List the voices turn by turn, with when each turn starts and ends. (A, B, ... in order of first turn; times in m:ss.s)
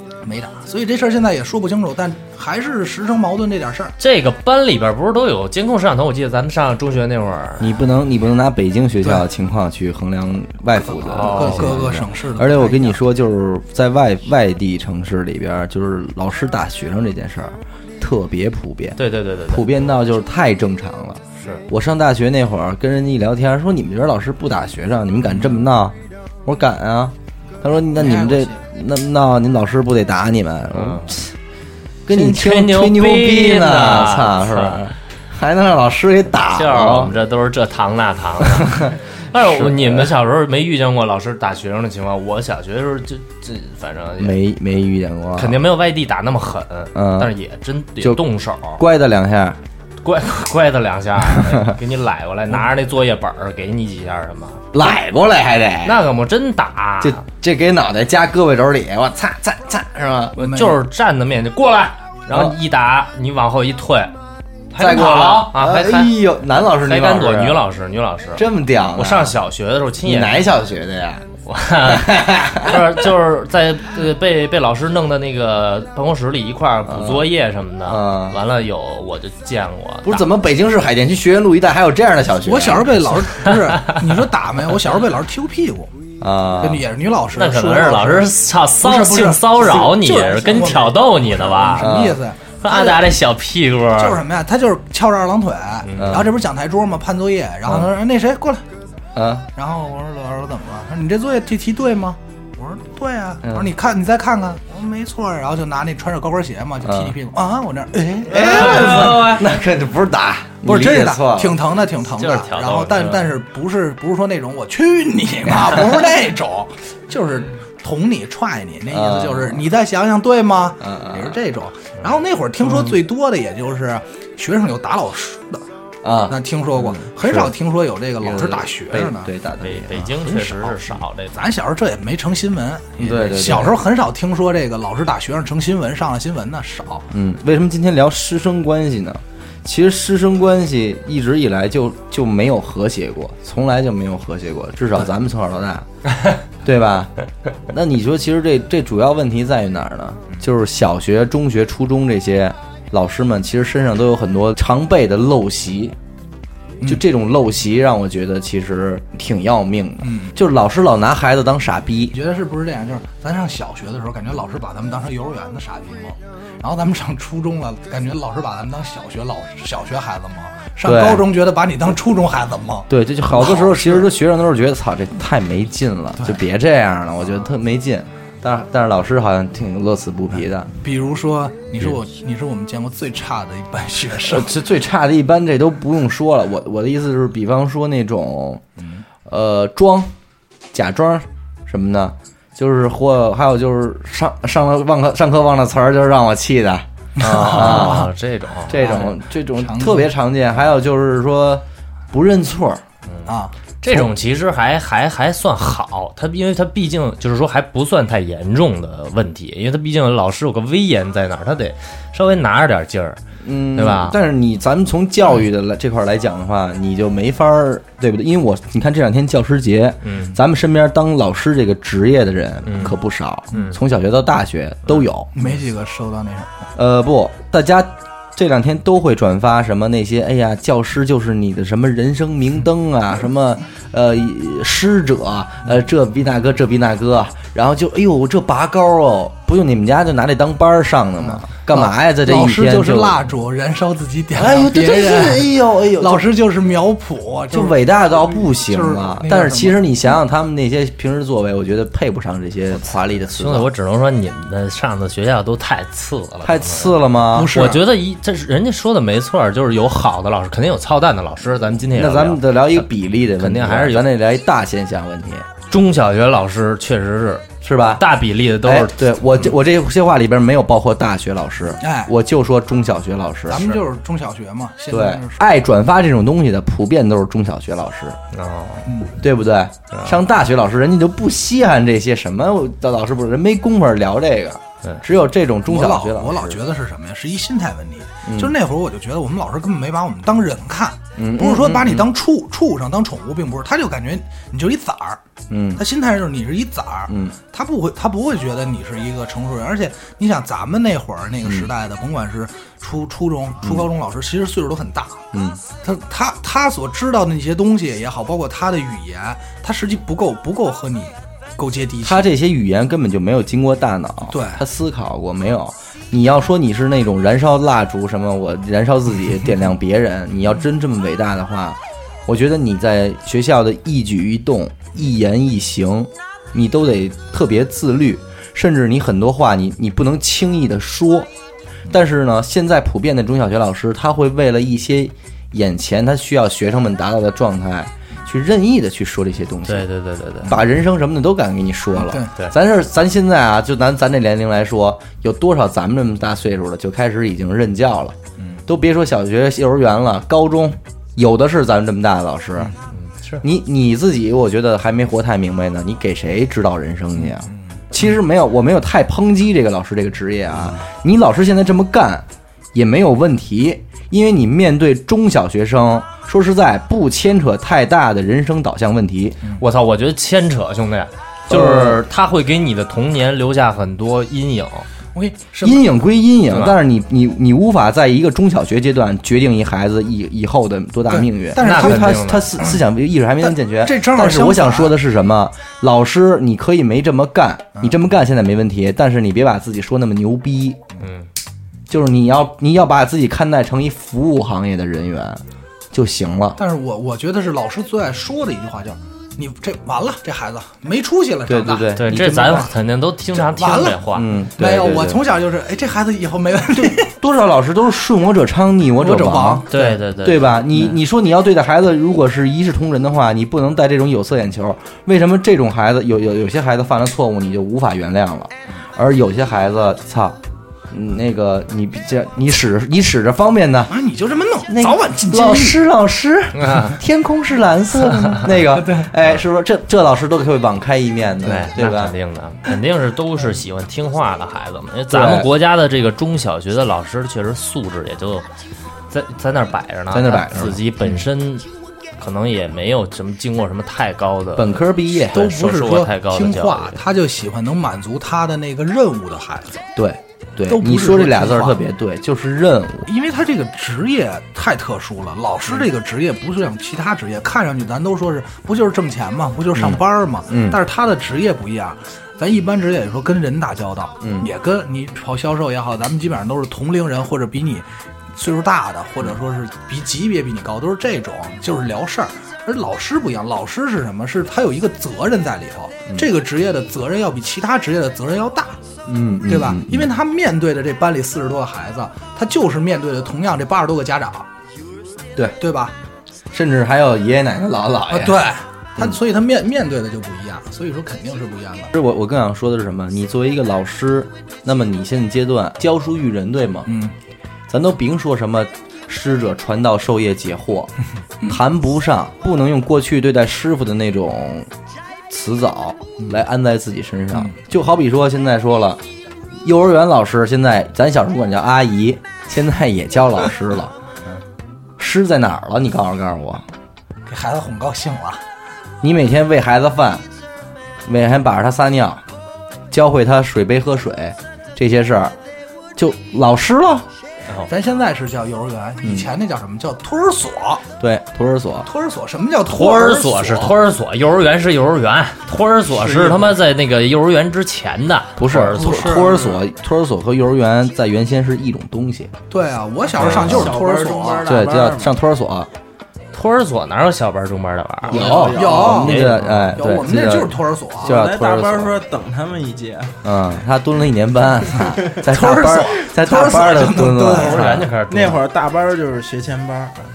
0:00.2-0:03.9 A
0:04.0-0:07.7 B
0:07.6-0:31.3 C
0:10.8-0:13.0 A
0:11.1-0:11.8 B
0:19.0-0:19.7 B
0:21.4-0:21.6 B
0:28.0-0:28.6 A
0:30.7-0:31.2 B
0:32.0-0:37.2 C
0:32.1-0:34.8 B
0:36.5-0:44.4 B
0:38.5-0:40.1 C
0:44.2-0:45.6 C
0:45.4-0:48.8 B
0:46.9-0:47.3 C
0:48.0-0:49.6 C
0:50.0-0:54.6 B
0:51.4-0:51.8 C
0:54.7-0:56.0 C
0:55.8-0:57.2 B
0:57.0-1:00.4 C
1:00.4-1:04.1 B
1:00.4-1:00.8 A
1:04.7-1:06.1 B
1:04.8-1:07.6 C
1:06.8-1:10.5 B
1:08.4-1:09.4 C
1:10.0-1:11.2 C
1:11.4-1:20.3 B
1:11.8-1:13.1 C
1:16.9-1:17.3 C
1:17.8-1:18.4 C
1:20.0-1:23.2 C
1:22.4-1:25.9 A
1:26.2-1:26.8 C
1:26.6-1:28.3 A
1:27.4-1:31.9 B
1:28.8-1:33.1 A
1:31.8-1:32.2 C
1:32.6-1:34.2 B
1:34.0-1:38.6 A
1:35.8-1:36.2 B
1:36.0-1:36.4 C
1:39.2-1:39.5 C
1:39.6-1:49.4 A
1:43.4-1:43.7 C
1:46.8-1:47.2 C
1:48.2-1:51.6 C
1:48.3-1:49.4 B
1:50.6-2:05.6 A
1:52.2-1:53.3 B
1:58.9-1:59.7 C
2:00.8-2:01.4 C
2:06.0-2:07.5 C
2:06.3-2:09.3 A
2:08.2-2:10.1 C
2:09.6-2:11.4 B
2:10.3-2:17.1 A
2:13.0-2:13.8 C
2:17.1-2:25.9 C
2:26.6-2:27.1 C
2:27.7-2:36.0 C
2:36.8-2:42.2 C
2:40.0-2:40.4 A
2:42.1-2:54.1 A
2:50.8-2:51.3 C
2:52.9-3:00.7 C
3:00.8-3:04.5 A
3:04.2-3:08.6 C
3:09.3-3:10.1 C
3:10.7-3:18.1 C
3:17.2-3:18.1 A
3:17.2-3:19.0 B
3:18.7-3:22.8 C
3:18.8-3:20.1 A
3:23.3-3:23.5 A
3:23.8-3:33.2 B
3:33.4-3:45.3 C
3:33.8-3:34.2 B
3:40.0-3:40.4 B
3:42.6-3:43.0 B
3:43.5-3:43.8 B
3:45.4-3:46.7 A
3:46.8-4:03.2 C
4:01.2-4:10.1 A
4:04.3-4:06.3 C
4:07.5-4:13.7 C
4:13.3-4:17.0 B
4:16.4-4:17.5 C
4:17.3-4:17.8 A
4:17.5-4:22.9 B
4:21.9-4:25.5 C
4:23.4-4:24.1 B
4:25.7-4:29.0 B
4:27.6-4:28.0 C
4:28.6-4:33.8 C
4:31.8-4:32.1 A
4:33.5-4:35.4 A
4:34.9-4:38.2 C
4:38.3-4:38.9 B
4:38.9-4:39.2 A
4:39.2-4:46.6 C
4:39.9-4:40.2 B
4:45.7-4:55.2 A
4:48.3-4:48.5 C
4:51.2-4:52.1 C
4:55.5-4:55.8 C
4:55.8-5:05.3 A
4:57.1-4:57.4 C
5:03.6-5:03.9 C
5:05.3-5:05.6 C
5:05.8-5:12.3 A
5:12.0-5:31.3 C
5:14.3-5:14.6 A
5:31.9-5:39.9 C
5:39.7-5:40.5 B
5:40.4-5:52.7 C
5:42.0-5:42.3 A
5:48.4-5:48.6 A
5:52.9-5:53.4 B
5:53.4-6:09.4 C
5:57.2-5:57.6 A
6:09.6-6:14.9 B
6:11.5-6:12.0 C
6:15.1-6:15.9 A
6:15.6-6:30.8 C
6:16.5-6:16.8 B
6:21.1-6:22.8 A
6:21.6-6:22.5 B
6:23.4-6:25.0 A
6:31.0-6:31.3 B
6:31.9-6:36.6 C
6:36.6-6:42.7 A
6:41.5-6:42.7 C
6:42.0-6:44.3 B
6:43.3-6:47.1 A
6:44.1-6:45.2 C
6:46.7-7:00.4 C
6:49.0-6:50.0 A
6:49.7-6:50.9 B
7:00.9-7:03.9 C
7:03.9-7:05.8 A
7:04.7-7:12.2 C
7:06.6-7:07.0 B
7:08.6-7:09.1 A
7:11.4-7:18.5 B
7:15.1-7:15.5 C
7:19.1-7:21.7 B
7:20.1-7:20.8 C
7:22.2-7:27.0 B
7:24.6-7:25.5 C
7:25.3-7:29.9 A
7:30.0-7:33.1 C
7:30.7-7:31.8 A
7:33.1-7:58.8 A
7:39.7-7:40.8 C
7:44.2-7:44.5 C
7:59.1-8:00.1 C
7:59.5-8:04.5 A
8:05.6-8:06.0 A
8:06.5-8:08.4 C
8:08.1-8:11.9 A
8:11.9-8:16.9 C
8:16.9-8:17.2 A
8:17.7-8:20.9 C
8:21.5-8:24.7 C
8:25.3-8:29.0 C
8:29.6-8:34.0 C
8:35.0-8:36.7 C
8:37.3-8:38.4 A
8:39.0-8:40.2 C
8:41.0-8:42.2 C
8:42.9-8:45.4 C
8:46.0-8:47.1 C
8:47.7-8:50.8 A
8:49.0-8:49.3 C
8:51.0-8:51.9 C
8:51.8-8:53.8 A
8:52.7-8:59.2 B
8:55.9-8:56.6 D
8:58.4-9:02.3 C
8:58.7-8:59.6 A
9:02.5-9:04.5 A
9:03.2-9:03.8 C
9:03.2-9:05.1 D
9:04.4-9:05.7 C
9:06.3-9:08.4 B
9:08.0-9:09.3 D
9:08.1-9:12.0 C
9:08.2-9:11.2 A
9:09.1-9:09.7 B
9:11.0-9:13.2 D
9:13.2-9:17.9 C
9:15.2-9:17.7 A
9:17.4-9:18.4 B
9:18.1-9:20.0 D